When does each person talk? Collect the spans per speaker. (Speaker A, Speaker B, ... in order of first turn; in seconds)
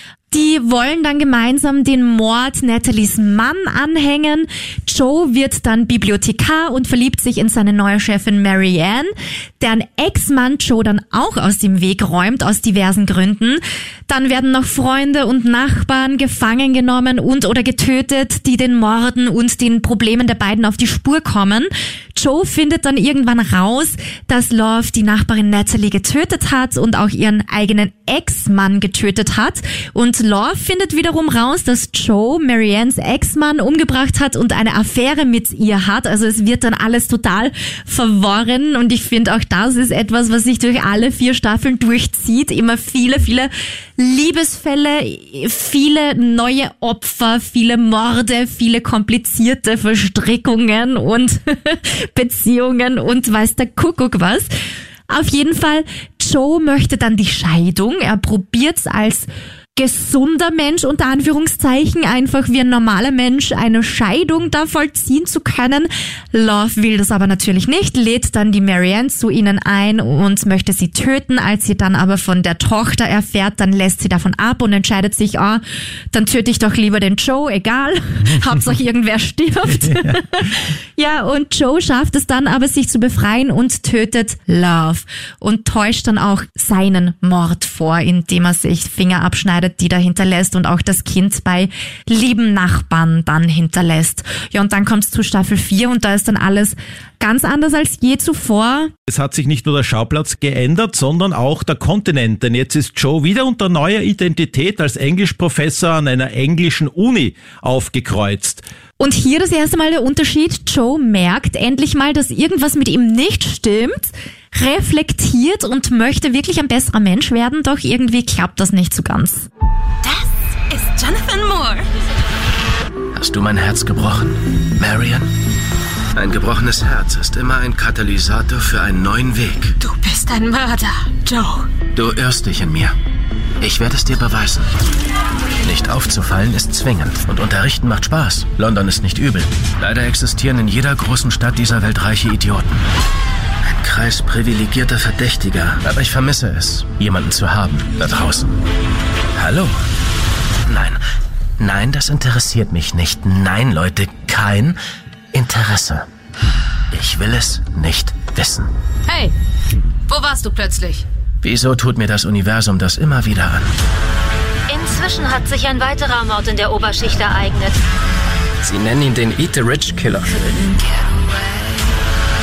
Speaker A: 0.3-54.5, 55.1-98.9, 109.0-119.5
Speaker B: 79.9-80.1, 99.1-108.6
Speaker C: 120.0-121.8, 129.8-131.7, 159.1-159.3, 160.1-161.0
Speaker D: 123.1-125.3, 126.2-129.7, 131.8-132.9, 133.6-134.7, 135.6-142.8, 143.8-148.5, 149.3-149.8, 150.7-151.0, 151.6-154.8, 155.3-156.1, 156.9-158.7, 161.4-163.7, 168.6-170.6
Speaker E: 164.7-167.8